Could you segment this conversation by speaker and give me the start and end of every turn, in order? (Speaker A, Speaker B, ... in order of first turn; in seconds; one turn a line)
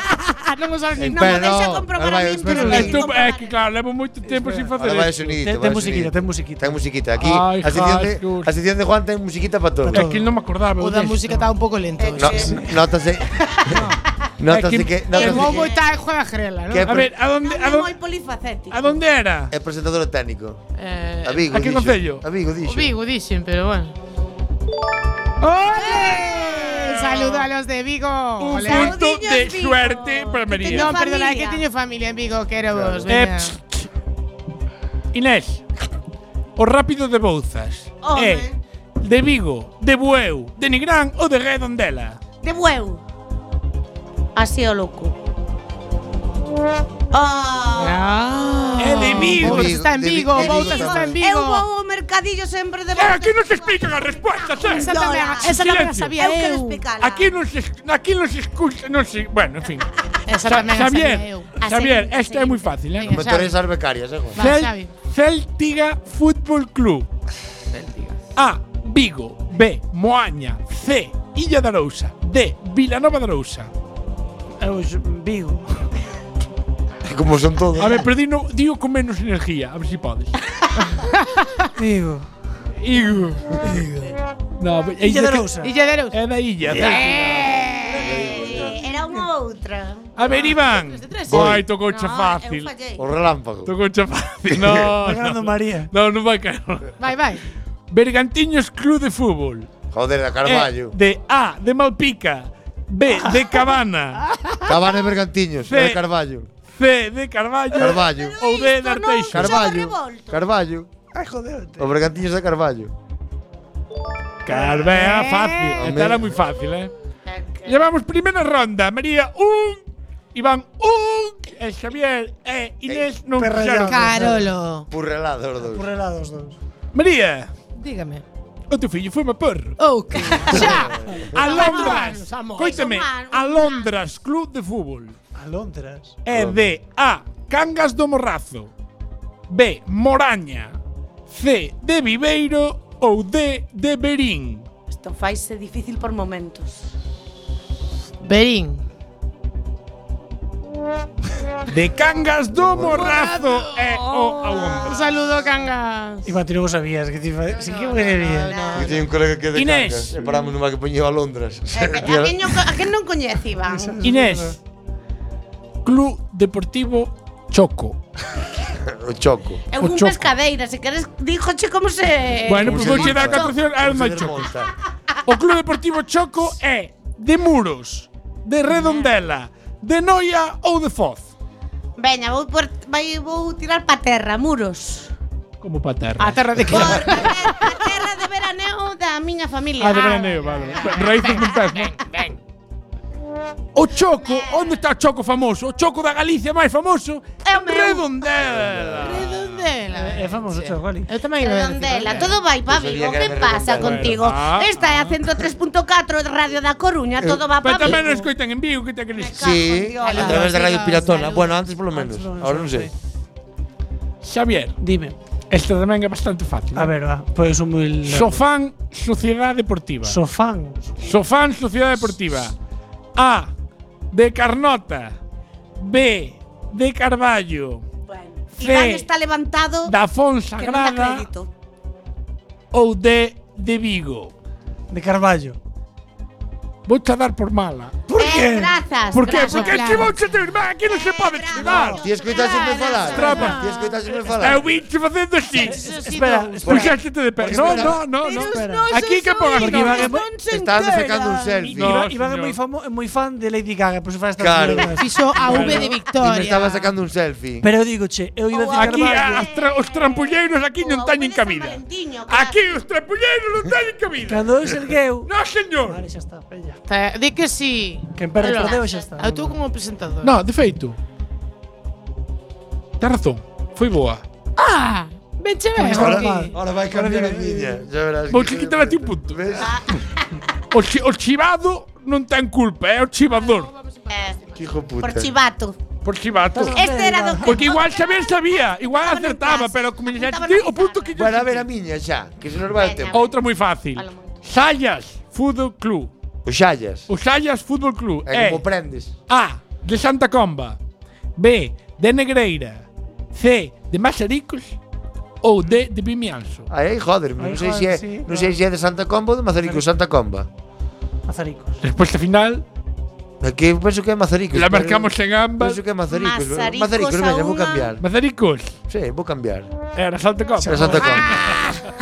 Speaker A: 0.3-1.6
Speaker B: 0.9-3.0
Speaker C: 1.1-3.6
Speaker D: 2.5-5.3
Speaker E: 4.2-4.8
Speaker B: 4.7-10.1
Speaker E: 5.4-6.8
Speaker D: 7.2-8.5
Speaker E: 9.8-10.3
Speaker D: 9.9-11.4
Speaker A: 10.8-12.7
Speaker C: 12.0-12.7
Speaker B: 12.2-13.8
Speaker E: 13.7-14.0
Speaker B: 14.4-15.7
Speaker D: 14.5-15.0
Speaker C: 15.1-15.9
Speaker A: 15.1-17.1
Speaker B: 16.7-17.1
Speaker D: 16.8-17.9
Speaker C: 17.4-19.0
Speaker D: 18.7-19.5
Speaker B: 19.5-20.6
Speaker A: 20.8-21.5
Speaker B: 21.2-22.9
Speaker D: 21.5-22.2
Speaker A: 22.6-23.9
Speaker D: 25.4-27.4
Speaker C: 25.7-27.1
Speaker A: 26.8-28.9
Speaker D: 28.4-30.9
Speaker C: 28.5-31.6
Speaker A: 30.7-33.5
Speaker B: 32.7-33.1
Speaker D: 33.1-33.9
Speaker D: 35.1-35.6
Speaker D: 36.5-38.5
Speaker C: 38.0-38.5
Speaker D: 39.0-42.2
Speaker C: 42.4-43.0
Speaker C: 44.3-45.1
Speaker C: 47.1-49.4
Speaker A: 47.8-51.6
Speaker D: 48.8-49.8
Speaker B: 49.3-51.1
Speaker C: 50.3-57.3
Speaker D: 52.9-56.2
Speaker A: 54.7-56.9
Speaker D: 56.9-59.9
Speaker A: 60.3-61.5
Speaker D: 60.4-63.1
Speaker C: 61.6-63.0
Speaker A: 63.0-63.5
Speaker B: 63.1-64.4
Speaker A: 64.3-64.9
Speaker D: 64.3-67.1
Speaker D: 68.3-73.7
Speaker E: 74.6-75.9
Speaker B: 77.0-78.1
Speaker D: 77.8-80.3
Speaker A: 80.8-81.1
Speaker E: 81.8-82.3
Speaker D: 82.8-83.6
Speaker E: 83.6-84.1
Speaker D: 84.6-85.5
Speaker E: 85.0-85.7
Speaker A: 85.6-86.2
Speaker D: 86.1-87.0
Speaker E: 86.7-87.1
Speaker C: 86.7-90.1
Speaker B: 87.9-88.7
Speaker D: 90.2-92.7
Speaker A: 90.6-91.6
Speaker B: 91.3-91.7
Speaker C: 91.8-93.0
Speaker B: 93.0-93.7
Speaker D: 93.7-96.9
Speaker B: 94.5-94.8
Speaker E: 94.9-95.9
Speaker A: 97.0-97.4
Speaker D: 97.9-99.7
Speaker B: 99.9-100.9
Speaker D: 100.4-104.2
Speaker E: 103.1-103.8
Speaker E: 104.4-104.6
Speaker B: 104.6-106.5
Speaker D: 105.7-106.0
Speaker D: 106.7-109.7
Speaker B: 107.7-108.4
Speaker C: 107.9-110.4
Speaker B: 109.3-110.9
Speaker E: 111.1-111.9
Speaker B: 111.8-112.9
Speaker D: 114.4-116.9
Speaker E: 114.5-115.2
Speaker A: 114.9-115.7
Speaker B: 115.7-116.3
Speaker C: 117.2-117.8
Speaker D: 117.7-124.2
Speaker B: 122.8-123.1
Speaker E: 123.4-124.5
Speaker A: 123.8-124.9
Speaker B: 124.9-125.9
Speaker E: 125.6-126.5
Speaker D: 126.9-127.5
Speaker A: 127.8-128.2
Speaker D: 128.7-129.8
Speaker A: 129.8-132.9
Speaker D: 130.3-130.8
Speaker B: 130.4-131.3
Speaker D: 131.3-135.2
Speaker C: 131.4-133.9
Speaker E: 135.3-136.2
Speaker D: 136.2-138.7
Speaker B: 136.3-136.7
Speaker D: 139.5-140.8
Speaker D: 141.3-144.7
Speaker C: 144.9-146.8
Speaker A: 148.2-148.8
Speaker D: 151.7-155.1
Speaker B: 152.6-153.1
Speaker A: 152.9-156.3
Speaker E: 156.2-158.5
Speaker A: 157.5-159.0
Speaker C: 157.6-159.0
Speaker B: 158.7-162.6
Speaker D: 159.5-160.1
Speaker C: 161.7-164.0
Speaker E: 163.7-164.5
Speaker D: 164.0-164.6
Speaker D: 165.8-168.0
Speaker B: 168.8-169.6
Speaker C: 169.7-173.6
Speaker D: 169.8-170.3
Speaker D: 172.4-174.5
Speaker B: 172.6-174.7
Speaker D: 175.2-181.3
Speaker C: 178.7-179.1
Speaker C: 182.0-185.1
Speaker D: 185.6-187.4
Speaker A: 186.2-187.5
Speaker C: 186.7-191.5
Speaker D: 189.8-191.9
Speaker A: 189.9-192.4
Speaker D: 193.7-199.7
Speaker C: 194.1-194.8
Speaker C: 197.4-198.1
Speaker B: 198.4-199.2
Speaker A: 199.0-202.3
Speaker E: 199.9-201.1
Speaker C: 201.4-208.2
Speaker B: 202.6-204.2
Speaker D: 203.8-205.2
Speaker B: 207.2-207.9
Speaker D: 207.6-209.5
Speaker E: 208.0-208.2
Speaker C: 209.1-211.5
Speaker B: 209.4-212.9
Speaker A: 210.0-211.5
Speaker E: 211.9-212.9
Speaker D: 214.2-214.8
Speaker E: 214.8-215.1
Speaker D: 215.5-216.9
Speaker E: 216.7-218.4
Speaker D: 218.1-220.2
Speaker E: 220.0-221.1
Speaker D: 221.0-222.5
Speaker D: 223.2-223.5
Speaker D: 224.1-225.2
Speaker D: 225.8-227.8
Speaker C: 228.1-229.9
Speaker D: 228.6-229.1
Speaker D: 229.8-231.3
Speaker C: 230.5-231.5
Speaker D: 232.7-234.3
Speaker E: 234.9-235.6
Speaker D: 236.8-237.9
Speaker E: 238.1-238.8
Speaker C: 238.1-240.2
Speaker D: 239.1-242.1
Speaker A: 239.2-240.1
Speaker C: 240.8-243.8
Speaker A: 241.7-243.6
Speaker B: 242.0-244.7
Speaker D: 243.1-243.7
Speaker D: 244.3-245.8
Speaker A: 245.6-246.8
Speaker E: 245.6-248.9
Speaker B: 246.6-248.0
Speaker D: 246.7-250.1
Speaker C: 248.2-251.7
Speaker E: 249.6-250.3
Speaker B: 250.5-252.1
Speaker D: 251.6-252.6
Speaker E: 251.7-255.9
Speaker B: 254.4-254.9
Speaker A: 255.0-256.9
Speaker B: 255.5-257.7
Speaker D: 255.5-255.9
Speaker E: 257.6-259.5
Speaker C: 258.5-262.6
Speaker D: 258.7-266.0
Speaker E: 264.2-265.3
Speaker E: 265.9-266.8
Speaker A: 266.9-270.3
Speaker E: 268.1-269.6
Speaker C: 268.4-269.1
Speaker D: 270.2-271.0
Speaker D: 273.0-274.2
Speaker A: 274.6-276.5
Speaker E: 275.7-277.8
Speaker B: 275.8-279.8
Speaker D: 278.3-279.4
Speaker C: 279.5-280.4
Speaker D: 280.7-283.7
Speaker A: 283.3-284.7
Speaker C: 284.1-284.4
Speaker B: 284.5-285.3
Speaker C: 285.0-285.8
Speaker D: 286.0-286.9
Speaker E: 286.5-287.7
Speaker C: 286.6-291.3
Speaker D: 287.4-291.6
Speaker B: 291.1-293.2
Speaker C: 292.7-294.4
Speaker D: 293.1-296.1
Speaker B: 296.4-297.1
Speaker D: 297.1-298.6
Speaker B: 298.2-299.1
Speaker D: 299.3-300.8
Speaker D: 301.4-304.8
Speaker D: 305.4-306.7
Speaker B: 306.7-310.5
Speaker E: 307.4-308.5
Speaker E: 309.6-309.9
Speaker E: 311.3-311.8
Speaker D: 311.8-312.6
Speaker B: 313.4-318.0
Speaker D: 314.5-315.8
Speaker C: 316.1-317.9
Speaker D: 318.0-318.8
Speaker B: 318.9-319.7
Speaker D: 319.9-321.7
Speaker E: 320.6-321.2
Speaker B: 320.6-321.4